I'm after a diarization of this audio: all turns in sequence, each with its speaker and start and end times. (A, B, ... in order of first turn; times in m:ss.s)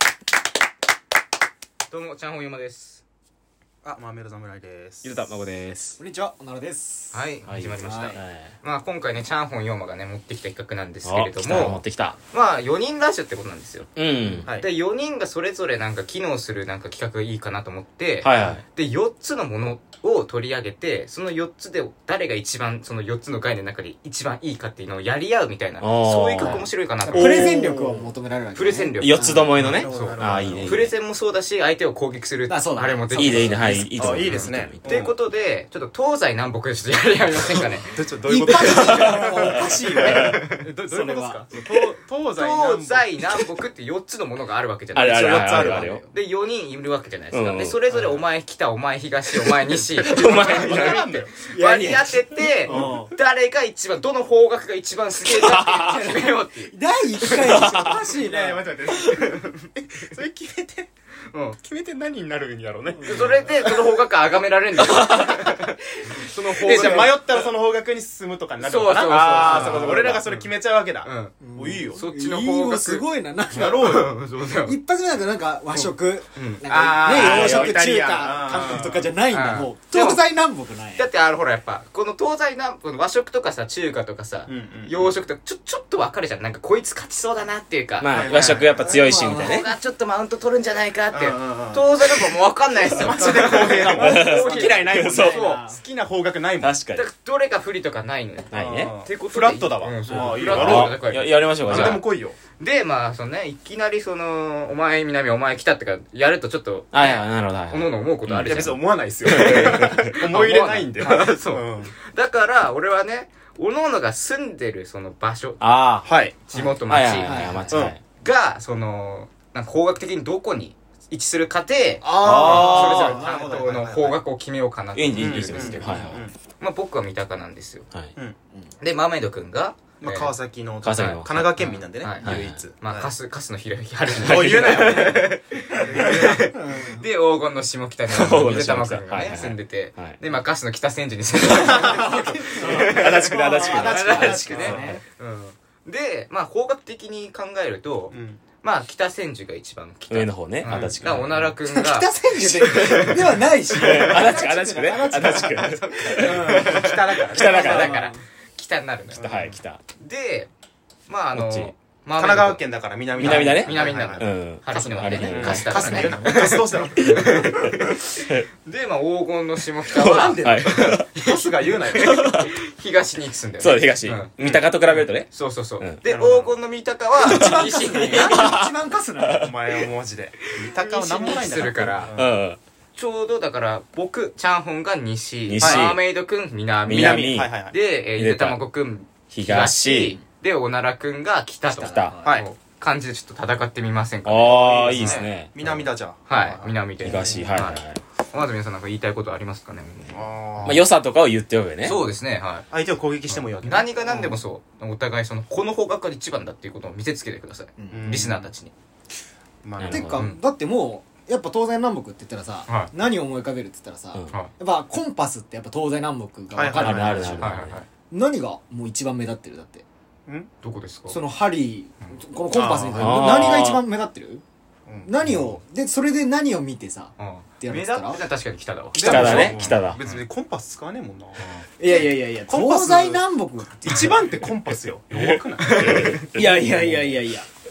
0:01.9-0:03.0 A
0:03.8-0:05.2 B
0:05.0-0:06.0 C
0:06.0-0:07.2 D
0:07.1-0:27.6 A
0:07.5-0:08.5 C
0:07.8-0:08.2 D
0:11.0-0:12.2 C
0:14.0-0:14.5 C
0:18.2-0:18.6 C
0:25.8-0:27.7 C
0:27.1-0:29.7 D
0:27.1-0:28.1 B
0:28.5-0:29.3 A
0:29.0-0:30.9 C
0:29.5-0:30.9 B
0:29.9-0:37.9 A
0:32.5-0:33.6 D
0:33.2-0:34.8 C
0:33.6-0:35.2 B
0:37.9-0:43.1 B
0:38.2-0:41.4 D
0:38.6-0:40.4 C
0:41.5-0:57.6 A
0:45.0-0:46.0 C
0:45.0-0:46.1 B
0:47.3-0:47.8 C
0:47.9-0:48.2 B
0:50.0-0:51.1 C
0:50.0-0:51.5 B
0:51.4-0:53.1 D
0:52.7-0:53.0 B
0:55.4-0:56.1 C
0:55.7-0:59.2 D
0:57.3-0:58.0 C
0:58.1-1:00.9 B
1:01.3-1:01.6 A
1:01.6-1:03.9 B
1:02.9-1:03.4 D
1:03.0-1:07.5 A
1:04.8-1:12.0 B
1:08.6-1:10.5 A
1:09.3-1:10.2 D
1:11.0-1:11.4 A
1:11.4-1:21.1 D
1:11.9-1:14.8 A
1:13.5-1:14.2 B
1:16.4-1:17.7 A
1:16.7-1:19.1 B
1:17.2-1:17.8 C
1:19.3-1:20.2 A
1:21.0-1:28.8 A
1:24.5-1:25.1 B
1:28.0-1:29.7 C
1:28.1-1:29.0 B
1:28.9-1:29.6 D
1:29.3-1:35.6 A
1:31.1-1:32.3 B
1:32.9-1:36.8 B
1:33.2-1:35.4 C
1:33.3-1:35.8 D
1:36.6-1:37.0 C
1:37.0-1:42.0 A
1:38.5-1:38.9 C
1:38.5-1:42.4 B
1:40.4-1:42.0 C
1:42.6-1:55.6 A
1:46.9-1:50.1 C
1:48.5-1:51.9 B
1:55.6-1:56.1 C
1:56.0-1:56.4 B
1:56.5-2:07.9 A
1:56.5-1:57.8 D
1:56.9-1:58.0 C
1:57.7-1:58.0 B
2:02.0-2:04.2 B
2:02.2-2:03.3 C
2:05.0-2:06.2 C
2:05.1-2:06.3 B
2:08.8-2:10.3 A
2:10.0-2:13.1 B
2:10.8-2:11.6 C
2:11.0-2:33.4 A
2:12.2-2:12.6 C
2:14.2-2:16.5 B
2:14.2-2:15.2 C
2:16.5-2:17.0 D
2:18.1-2:20.2 C
2:21.5-2:24.9 B
2:21.6-2:25.0 C
2:21.8-2:25.0 D
2:28.1-2:28.4 B
2:30.1-2:31.5 C
2:30.7-2:31.0 B
2:31.7-2:36.7 D
2:33.7-2:38.1 C
2:34.0-2:34.5 B
2:35.8-2:39.4 A
2:36.1-2:38.0 B
2:37.7-2:38.2 D
2:39.2-2:39.6 B
2:39.2-2:39.8 C
2:40.0-2:40.5 A
2:41.1-2:42.6 A
2:41.4-2:41.7 C
2:42.2-2:44.3 B
2:43.2-2:46.2 C
2:43.2-2:54.6 A
2:44.7-2:46.8 D
2:45.3-2:47.8 B
2:48.2-2:48.5 C
2:49.9-2:51.1 C
2:50.0-2:52.3 B
2:52.0-2:52.5 C
2:53.6-2:55.3 C
2:54.4-2:55.0 B
2:55.3-2:58.6 A
2:56.0-2:56.6 B
2:57.2-2:59.5 D
2:57.2-2:59.5 C
2:59.4-3:02.4 B
3:00.5-3:02.2 A
3:02.1-3:02.6 C
3:03.0-3:15.7 A
3:05.5-3:06.0 C
3:05.6-3:06.0 B
3:06.9-3:07.6 C
3:06.9-3:07.8 B
3:08.2-3:08.6 C
3:09.3-3:10.2 C
3:11.7-3:12.2 C
3:11.8-3:12.4 D
3:14.2-3:15.9 C
3:14.7-3:17.6 B
3:16.3-3:20.2 A
3:17.0-3:18.0 C
3:20.1-3:20.9 B
3:20.6-3:22.0 C
3:21.8-3:22.7 A
3:22.7-3:24.4 B
3:23.3-3:28.7 A
3:27.8-3:28.2 D
3:27.9-3:28.5 B
3:29.6-3:30.2 B
3:29.8-3:30.3 C
3:29.9-3:37.6 D
3:32.7-3:32.9 A
3:36.5-3:37.3 B
3:36.7-3:37.8 C
3:37.4-3:37.9 A
3:38.1-3:39.8 D
3:40.6-3:41.2 A
3:41.1-3:44.4 D
3:42.5-3:43.4 B
3:43.0-3:43.8 C
3:44.9-3:45.6 B
3:45.0-3:48.2 D
3:47.2-3:50.3 A
3:49.0-3:53.2 B
3:49.0-3:50.0 C
3:51.8-3:54.2 D
3:53.8-3:56.2 B
3:55.6-3:56.3 A
3:55.8-3:56.8 C
3:56.3-3:57.5 D